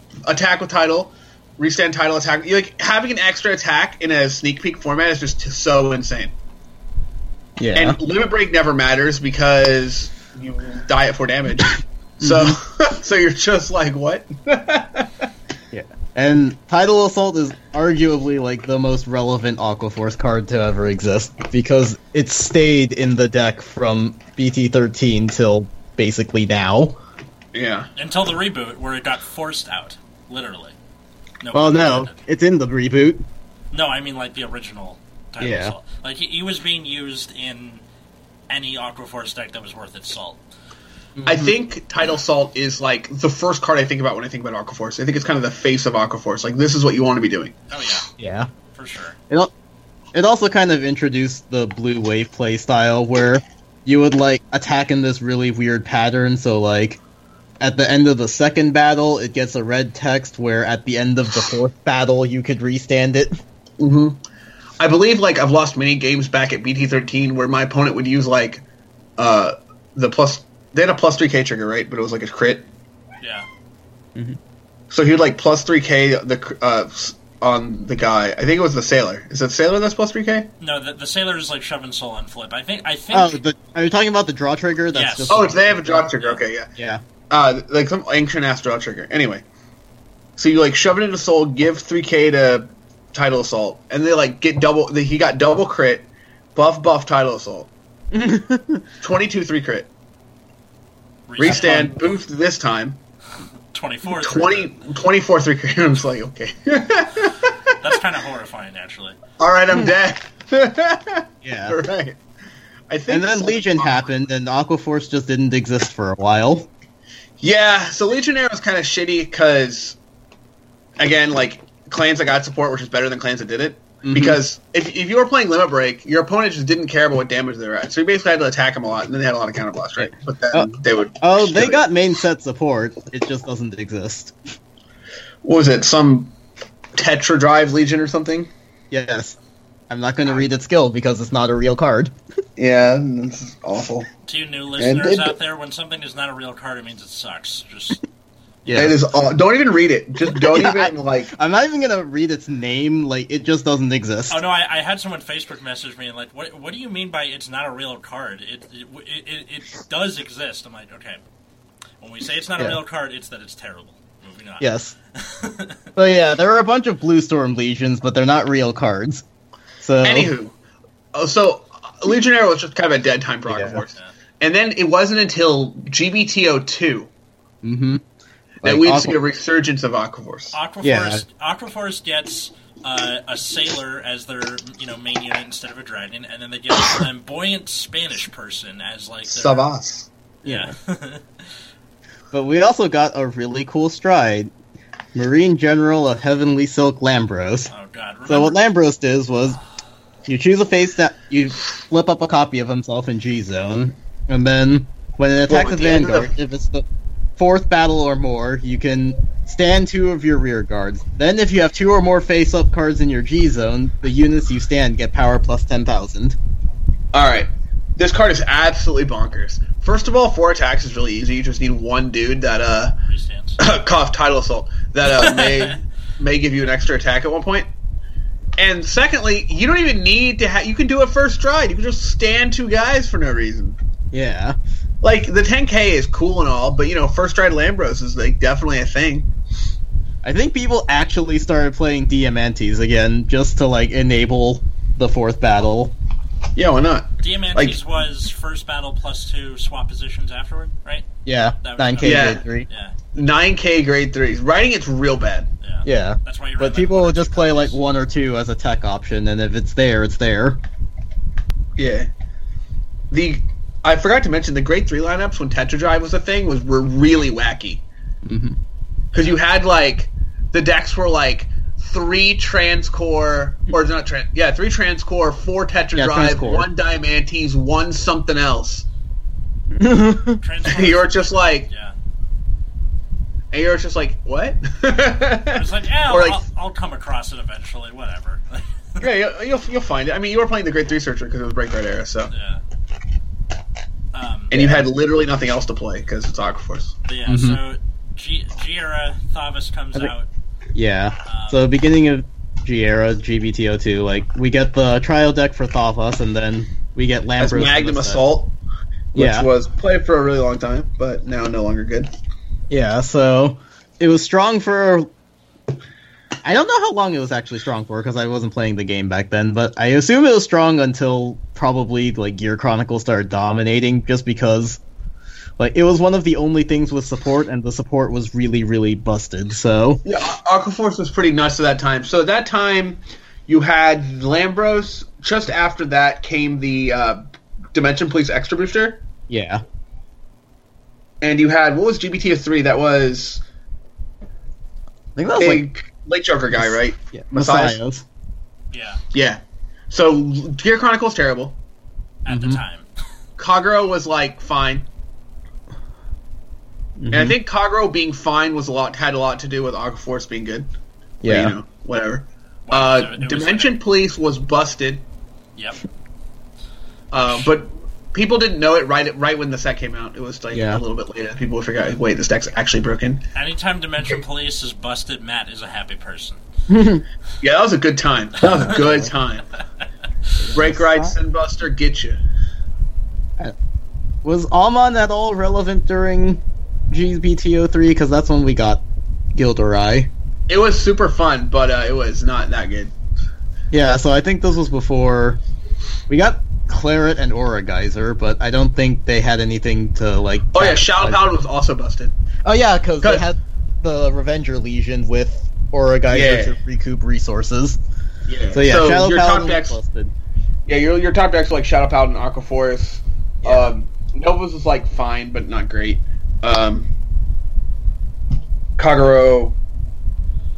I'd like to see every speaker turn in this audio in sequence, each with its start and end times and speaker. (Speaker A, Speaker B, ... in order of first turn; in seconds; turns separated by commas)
Speaker A: 0.2-6.3, Speaker B: 7.6-8.0, Speaker A: 7.8-15.3, Speaker B: 12.2-12.6, Speaker B: 15.7-27.0, Speaker A: 27.5-27.9, Speaker C: 28.0-30.8, Speaker C: 31.4-32.1, Speaker B: 31.5-33.2, Speaker C: 33.7-37.8, Speaker B: 35.4-35.8, Speaker C: 38.5-40.4, Speaker B: 41.2-41.5, Speaker A: 41.3-47.6, Speaker C: 47.7-48.1, Speaker B: 48.2-48.5, Speaker C: 48.7-49.2, Speaker B: 50.1-57.0, Speaker B: 57.6-63.4, Speaker A: 63.8-64.2, Speaker A: 64.8-68.6, Speaker A: 69.2-72.7, Speaker C: 73.2-73.5, Speaker A: 74.9-80.5, Speaker C: 80.6-83.4, Speaker B: 83.1-86.0, Speaker C: 84.9-86.4, Speaker A: 85.3-86.7, Speaker B: 86.8-87.0, Speaker A: 87.3-89.4, Speaker A: 90.4-97.7, Speaker B: 98.1-98.8, Speaker A: 99.0-99.9, Speaker C: 101.3-101.8, Speaker A: 101.4-103.0, Speaker B: 101.4-101.9, Speaker C: 103.7-104.8, Speaker A: 104.1-107.8, Speaker C: 107.8-109.2, Speaker A: 109.4-112.2, Speaker B: 111.4-111.8, Speaker A: 112.9-114.1, Speaker B: 113.1-116.7, Speaker A: 117.4-120.0, Speaker A: 121.0-131.8, Speaker B: 124.0-124.4, Speaker B: 130.0-134.3, Speaker A: 135.4-136.3, Speaker A: 136.9-138.5, Speaker B: 138.9-139.4, Speaker B: 139.9-142.1, Speaker A: 142.6-144.1, Speaker C: 144.3-148.0, Speaker A: 144.8-145.4, Speaker B: 148.7-149.0, Speaker A: 148.7-151.3, Speaker B: 150.3-154.4, Speaker C: 154.3-161.2, Speaker C: 162.0-165.8, Speaker B: 164.6-164.9, Speaker B: 166.0-169.2, Speaker B: 169.8-170.3, Speaker A: 170.0-170.6, Speaker A: 171.1-177.1, Speaker B: 173.5-173.8, Speaker B: 177.6-178.0, Speaker B: 178.6-179.2, Speaker A: 178.6-180.6, Speaker C: 180.5-189.6, Speaker B: 180.8-181.2, Speaker A: 189.2-190.1, Speaker C: 190.4-191.3, Speaker B: 190.4-190.7, Speaker B: 192.3-194.5, Speaker B: 195.1-197.7, Speaker C: 197.7-198.6, Speaker B: 198.3-199.6, Speaker B: 200.3-206.8, Speaker A: 205.5-206.3, Speaker B: 207.4-216.4, Speaker A: 217.1-223.0, Speaker C: 223.0-223.6, Speaker A: 223.6-227.7, Speaker C: 225.0-225.8, Speaker A: 228.6-233.8, Speaker B: 234.1-234.6, Speaker A: 235.0-239.3, Speaker B: 240.2-245.9, Speaker A: 246.6-247.8, Speaker C: 247.2-251.1, Speaker B: 251.2-252.7, Speaker C: 251.6-252.9, Speaker A: 252.0-252.4, Speaker A: 253.1-255.5, Speaker C: 255.6-257.8, Speaker B: 255.8-260.6, Speaker A: 261.8-262.1, Speaker A: 263.1-267.8, Speaker B: 268.2-268.6, Speaker A: 269.1-278.9, Speaker C: 269.1-269.4, Speaker B: 275.9-276.7, Speaker B: 279.8-280.4, Speaker C: 280.4-281.9, Speaker A: 280.6-281.7, Speaker A: 283.5-286.4, Speaker C: 285.5-289.1, Speaker A: 289.0-292.3, Speaker C: 292.3-292.6, Speaker C: 294.1-294.5, Speaker A: 294.5-296.9, Speaker B: 294.5-294.8, Speaker C: 297.1-300.3, Speaker B: 297.3-297.6, Speaker B: 300.8-308.2, Speaker C: 301.2-301.7, Speaker A: 307.4-308.5, Speaker B: 309.1-309.5, Speaker A: 309.1-312.1, Speaker B: 312.7-315.1, Speaker B: 316.4-324.8, Speaker B: 325.6-330.0, Speaker A: 330.1-337.2, Speaker A: 337.7-339.0, Speaker B: 339.3-339.6, Speaker A: 341.2-343.4, Speaker B: 345.2-345.7, Speaker A: 345.4-347.8, Speaker B: 346.6-348.0, Speaker C: 348.7-349.0, Speaker A: 349.1-351.6, Speaker C: 352.2-352.9, Speaker B: 352.3-352.6, Speaker A: 353.4-354.9, Speaker B: 357.0-357.4, Speaker A: 357.1-360.7, Speaker B: 361.2-361.6, Speaker A: 361.2-365.1, Speaker C: 362.7-363.8, Speaker C: 365.6-365.8, Speaker A: 367.1-373.2, Speaker C: 367.2-367.5, Speaker B: 370.5-370.8, Speaker C: 373.4-376.4, Speaker B: 376.7-377.1, Speaker A: 377.4-379.5, Speaker B: 378.6-379.1, Speaker B: 380.4-381.2, Speaker A: 380.6-382.2, Speaker B: 384.2-390.1, Speaker A: 390.5-392.9, Speaker B: 393.7-395.4, Speaker B: 396.1-401.3, Speaker A: 400.5-402.1, Speaker B: 402.4-407.8, Speaker A: 406.1-406.6, Speaker A: 408.3-409.8, Speaker B: 408.5-410.1, Speaker A: 410.7-416.9, Speaker B: 413.4-413.7, Speaker A: 418.8-419.6